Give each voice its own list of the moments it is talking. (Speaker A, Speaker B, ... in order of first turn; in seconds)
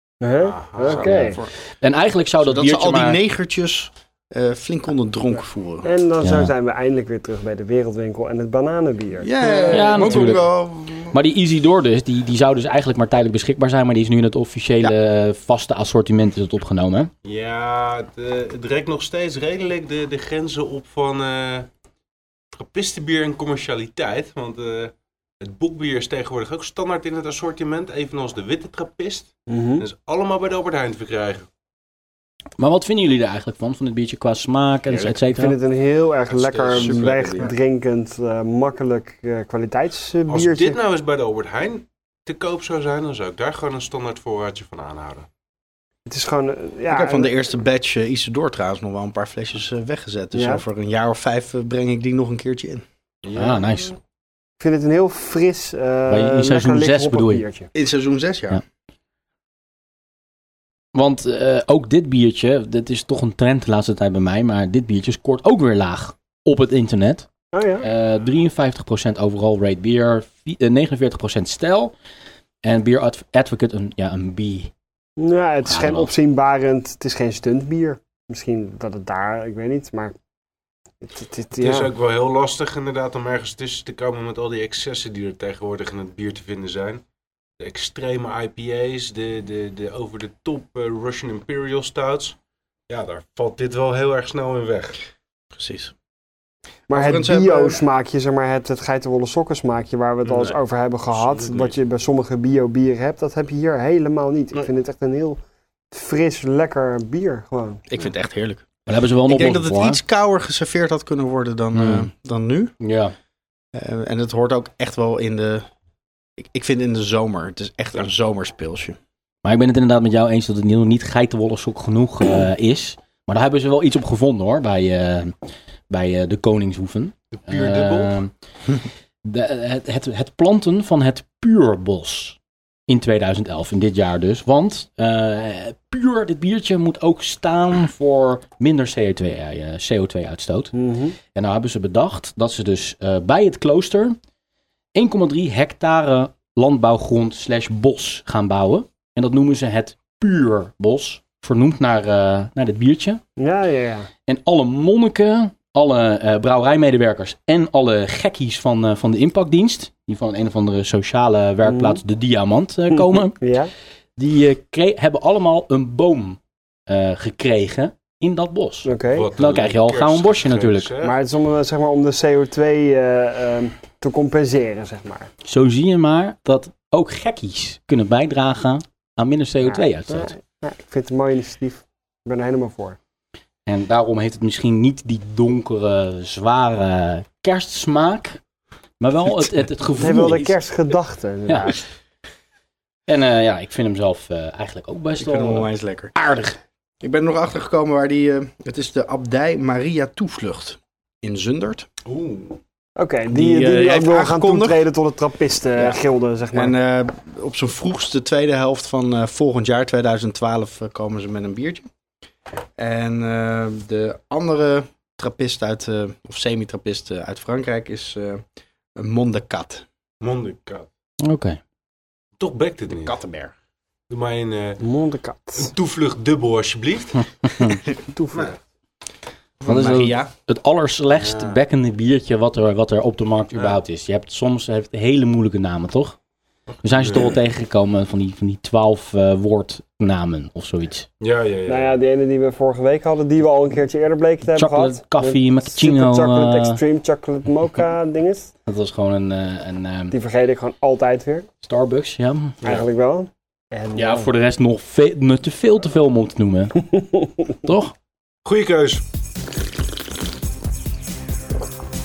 Speaker A: 0.2-1.4, 5.8-9.7, 29.5-29.8, 35.3-40.8, 46.1-47.3, 50.3-50.6, 54.6-57.7, 67.5-67.9, 75.2-80.1, 81.0-81.9, 96.9-105.4, 105.9-107.8, 140.7-141.2, 153.4-154.1, 161.6-162.0, 162.9-163.7, 168.8-169.3, 171.0-175.3, 179.6-183.0, 190.0-191.8, 203.0-206.7, 224.8-225.7, 228.1-228.6, 241.7-248.5, 250.1-251.5, 252.6-254.3
Speaker B: 0.4-1.1, 17.2-21.7, 22.5-31.5, 36.3-37.5, 40.3-45.3, 53.2-53.9, 81.6-87.0, 87.6-92.3, 92.9-95.0, 100.2-100.6, 101.1-101.8, 127.3-128.1, 169.1-171.2, 202.0-202.6, 220.2-220.9, 222.4-223.2, 224.1-224.8, 225.6-227.7, 231.1-231.6, 236.9-237.3, 241.2-242.0, 258.4-259.0
Speaker C: 0.8-1.5, 2.4-5.9, 9.2-11.2, 36.7-37.5, 46.9-52.8, 57.7-58.6, 95.5-95.9, 96.9-97.8, 107.9-108.7, 109.3-112.7, 113.7-115.7, 116.4-119.0, 195.2-196.5, 197.0-201.9, 203.3-204.9, 205.8-206.0, 206.5-211.9, 212.8-218.4, 218.9-219.8, 222.9-223.5, 229.6-230.3
Speaker D: 1.2-3.2, 6.2-6.5, 9.7-10.5, 11.1-17.1, 32.6-35.6, 53.3-53.9, 56.1-57.4, 60.9-67.3, 67.8-71.9, 72.6-74.7, 75.6-76.1, 108.9-110.0, 111.7-112.1, 112.8-113.1, 119.4-125.3, 125.9-128.3, 129.2-140.7, 141.3-144.2, 144.9-153.2, 154.2-163.4, 164.2-170.9, 175.4-180.3, 183.7-188.4, 189.0-190.6, 191.5-191.8, 193.1-196.5, 221.2-221.6, 229.7-236.2, 236.8-241.1, 244.5-246.8, 248.7-250.1, 251.6-252.6, 253.9-256.8, 257.6-257.9